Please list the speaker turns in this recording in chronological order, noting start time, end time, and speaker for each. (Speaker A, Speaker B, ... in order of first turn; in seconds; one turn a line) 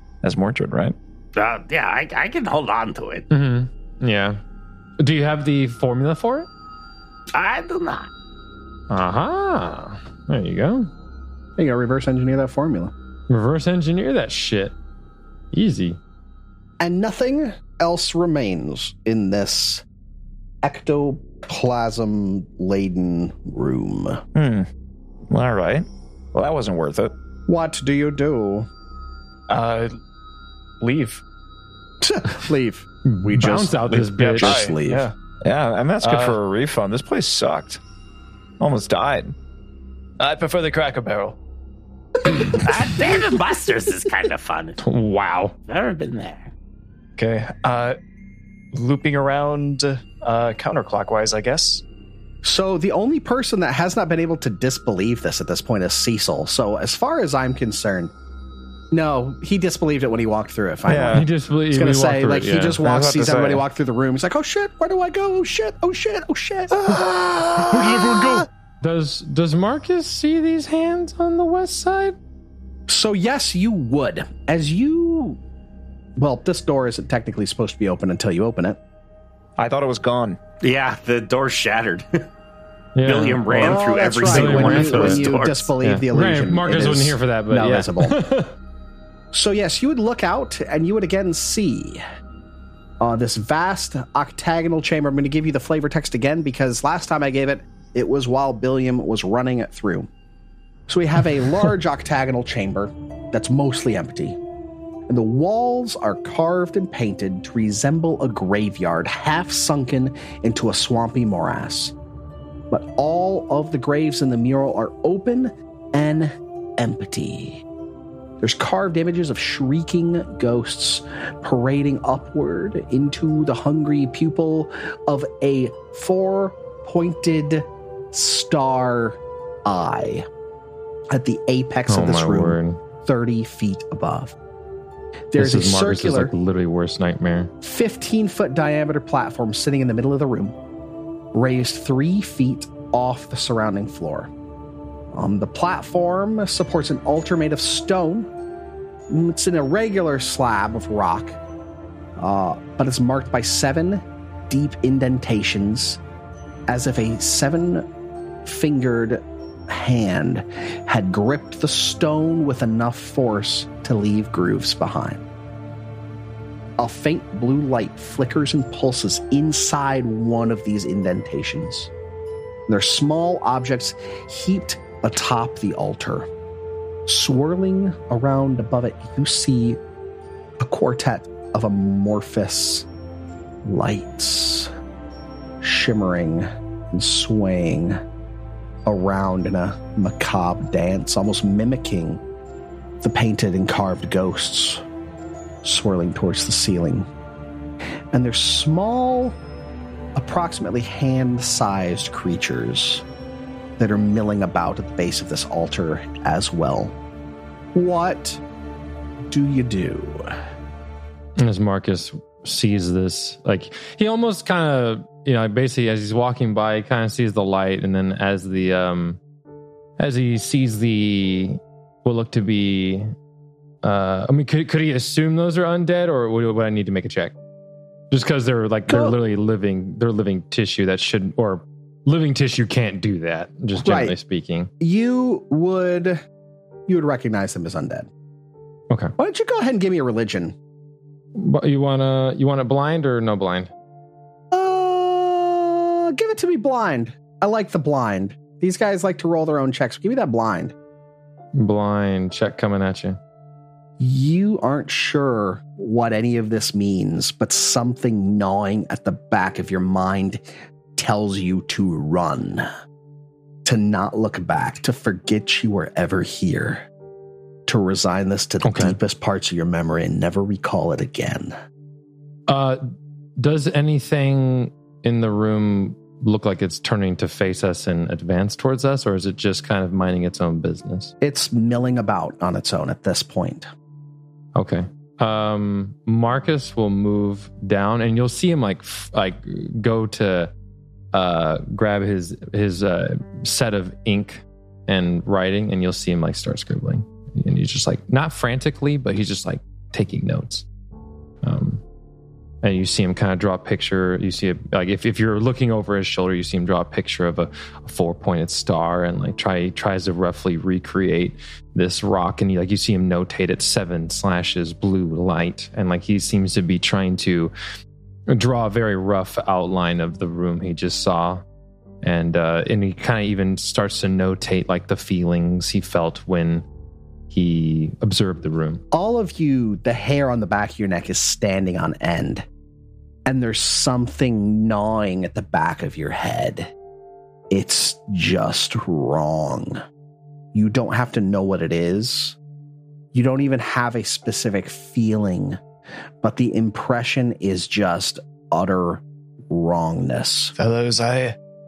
Speaker A: 0.2-0.9
Speaker B: 1.4-3.2
Speaker C: 3.3-4.4
Speaker C: 5.0-6.5
Speaker B: 7.3-8.1
Speaker C: 8.9-10.9
Speaker D: 11.6-12.9
Speaker C: 13.3-14.7
Speaker C: 15.5-16.0
Speaker D: 16.8-19.8
Speaker D: 20.6-24.2
Speaker A: 24.3-24.7
Speaker A: 25.3-27.1
Speaker D: 27.5-28.7
Speaker E: 29.5-30.0
Speaker E: 30.8-31.2
Speaker D: 32.0-35.1
Speaker C: 33.0-34.6
Speaker E: 34.2-35.1
Speaker A: 35.4-37.8
Speaker E: 36.0-36.4
Speaker A: 38.6-39.3
Speaker E: 40.2-41.4
Speaker B: 42.5-44.8
Speaker C: 44.8-45.5
Speaker B: 45.7-46.5
Speaker E: 47.2-48.0
Speaker E: 48.7-51.8
Speaker D: 52.4-58.1
Speaker D: 58.9-68.5
Speaker A: 60.9-61.3
Speaker C: 61.1-62.8
Speaker A: 62.8-63.6
Speaker C: 68.8-72.2
Speaker D: 72.9-75.4
Speaker D: 76.2-78.8
Speaker A: 79.6-80.4
Speaker B: 80.6-82.2
Speaker C: 83.0-85.3
Speaker B: 83.0-85.7
Speaker D: 83.6-88.2
Speaker C: 85.8-88.5
Speaker D: 89.3-92.0
Speaker D: 93.0-100.1
Speaker D: 100.9-104.4
Speaker D: 105.1-111.9
Speaker D: 112.7-117.6
Speaker D: 118.4-130.2
Speaker D: 131.1-134.3
Speaker C: 131.9-132.8
Speaker D: 135.3-136.3
Speaker C: 135.3-137.5
Speaker D: 137.6-140.6
Speaker D: 141.3-144.3
Speaker D: 145.1-148.3
Speaker D: 149.1-151.4
Speaker D: 152.2-156.0
Speaker D: 156.7-157.9
Speaker D: 158.4-165.2
Speaker D: 166.8-171.9
Speaker D: 172.7-176.3
Speaker D: 177.1-179.8
Speaker D: 180.6-182.9
Speaker D: 183.6-184.7
Speaker D: 185.6-188.0
Speaker D: 188.8-192.2
Speaker D: 193.0-194.8
Speaker D: 195.6-197.1
Speaker D: 198.1-199.4
Speaker D: 200.1-203.0
Speaker D: 203.8-206.9
Speaker D: 207.7-208.4
Speaker D: 209.3-210.2
Speaker C: 211.4-219.2
Speaker C: 220.0-223.1
Speaker C: 223.8-227.3
Speaker C: 228.1-234.7
Speaker D: 228.9-229.2
Speaker D: 233.8-234.2
Speaker D: 234.8-236.2
Speaker D: 236.9-238.1
Speaker D: 239.2-240.5
Speaker C: 241.3-243.7
Speaker D: 244.5-250.7
Speaker C: 251.5-253.2
Speaker D: 254.0-260.4
Speaker D: 260.9-262.7
Speaker D: 263.6-266.9
Speaker D: 267.7-271.5
Speaker C: 268.6-269.0
Speaker C: 272.5-272.8
Speaker C: 273.4-281.1
Speaker D: 281.2-283.7
Speaker C: 284.5-290.5
Speaker C: 291.1-300.6
Speaker C: 301.4-301.8
Speaker C: 302.6-317.5
Speaker C: 318.3-321.4
Speaker C: 322.0-326.6
Speaker C: 327.3-328.8
Speaker D: 328.9-332.4
Speaker D: 333.2-336.7
Speaker D: 337.5-339.8
Speaker D: 340.5-342.4
Speaker D: 343.1-345.6
Speaker D: 346.2-350.5
Speaker E: 350.6-351.4